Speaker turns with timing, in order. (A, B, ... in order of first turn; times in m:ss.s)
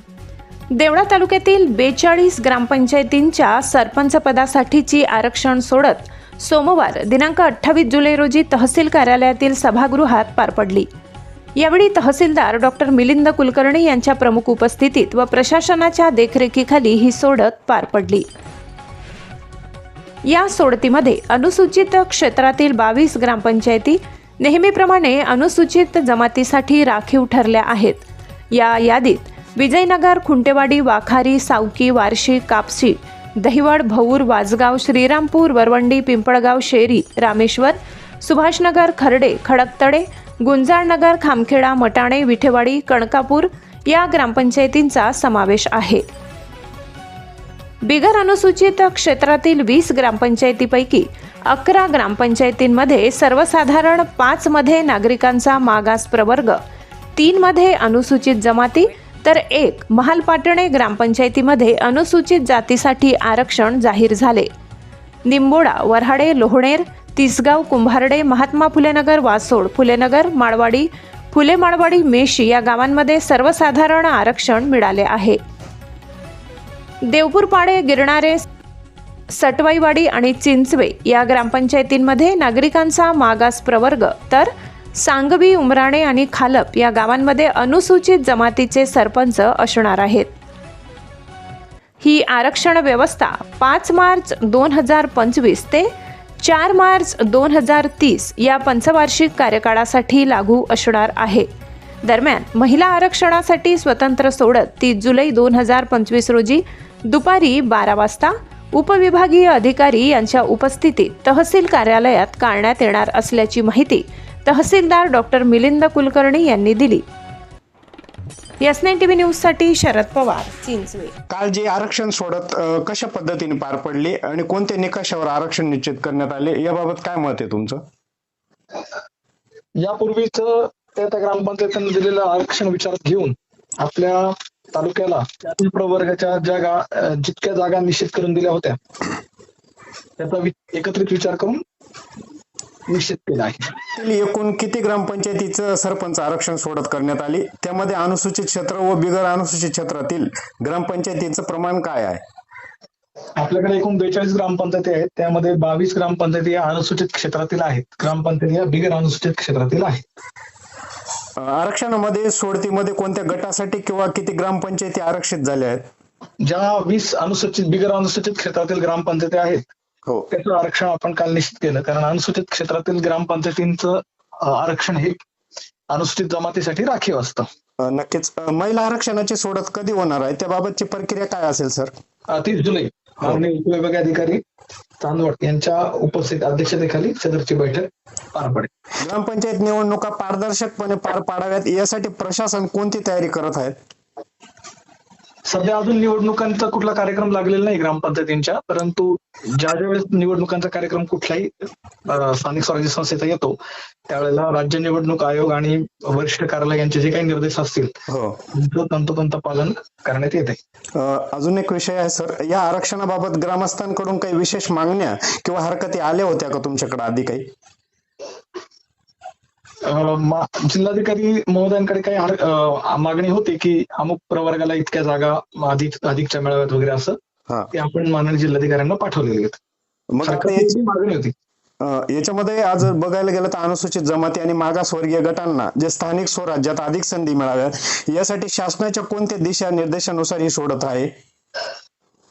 0:00.8-0:10.9 A
0:11.6-0:18.3 A
0:20.2-0:46.0 A
0:47.8-0:56.6 A
0:57.2-1:04.5 A
1:05.3-1:15.4 A
1:17.0-1:18.4 A
1:19.3-1:30.3 A
1:32.0-1:35.9 A
1:36.4-1:41.5 A
1:42.0-1:57.0 A
1:58.6-2:01.1 A
2:01.3-2:07.8 B
2:09.8-2:18.8 C
2:20.2-2:21.6 C
2:22.9-2:23.8 C
2:23.9-2:32.2 B
2:33.4-2:40.0 C
2:41.4-2:45.8 B
2:46.4-2:49.6 C
2:50.3-2:55.2 C
2:55.9-2:57.4 C
2:57.8-3:01.9 B
3:02.3-3:04.4 C
3:05.0-3:08.7 C
3:09.0-3:13.8 B
3:15.5-3:21.5 C
3:22.0-3:23.6 C
3:24.1-3:27.9 C
3:28.1-3:28.4 B
3:28.5-3:30.6 C
3:31.0-3:37.4 B
3:39.8-3:47.2 C
3:47.7-3:49.6 C
3:50.1-3:50.7 B
3:50.2-3:51.3 C
3:51.8-4:01.1 B